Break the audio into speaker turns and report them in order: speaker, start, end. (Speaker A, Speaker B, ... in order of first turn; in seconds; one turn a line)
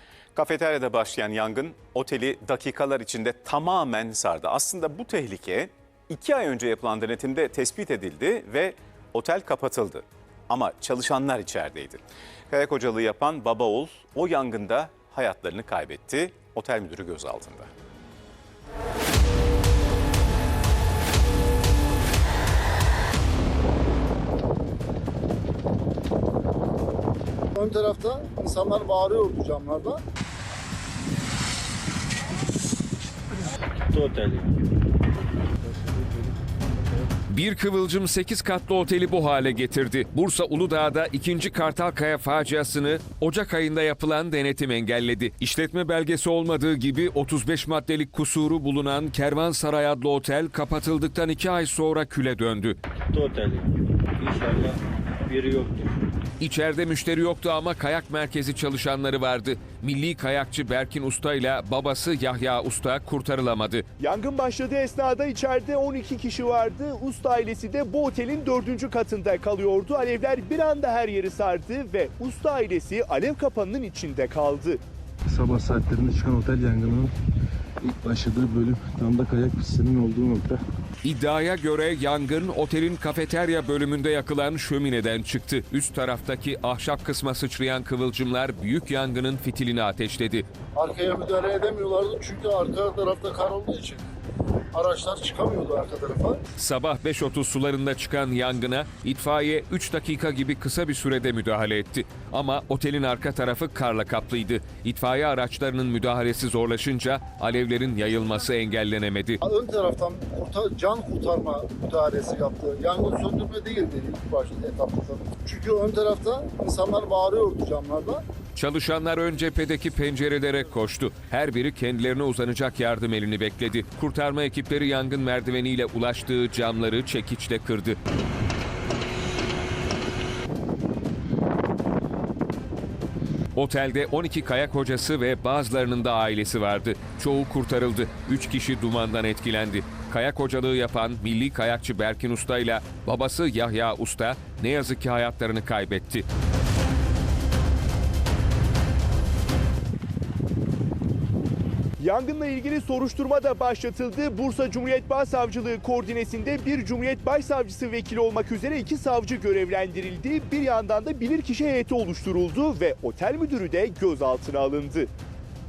Speaker A: 0.3-17.7
Speaker B: 27.5-30.0
Speaker C: 33.9-34.5
Speaker D: 37.3-52.8
Speaker C: 53.1-56.0
Speaker D: 56.4-63.9
Speaker E: 64.0-74.8
Speaker F: 75.3-77.1
Speaker F: 77.8-80.6
Speaker D: 81.0-90.5
Speaker B: 90.7-94.0
Speaker B: 94.7-96.4
Speaker D: 96.6-109.4
Speaker B: 109.4-118.2
Speaker D: 118.5-128.0
Speaker D: 133.5-146.2
Speaker E: 152.0-165.1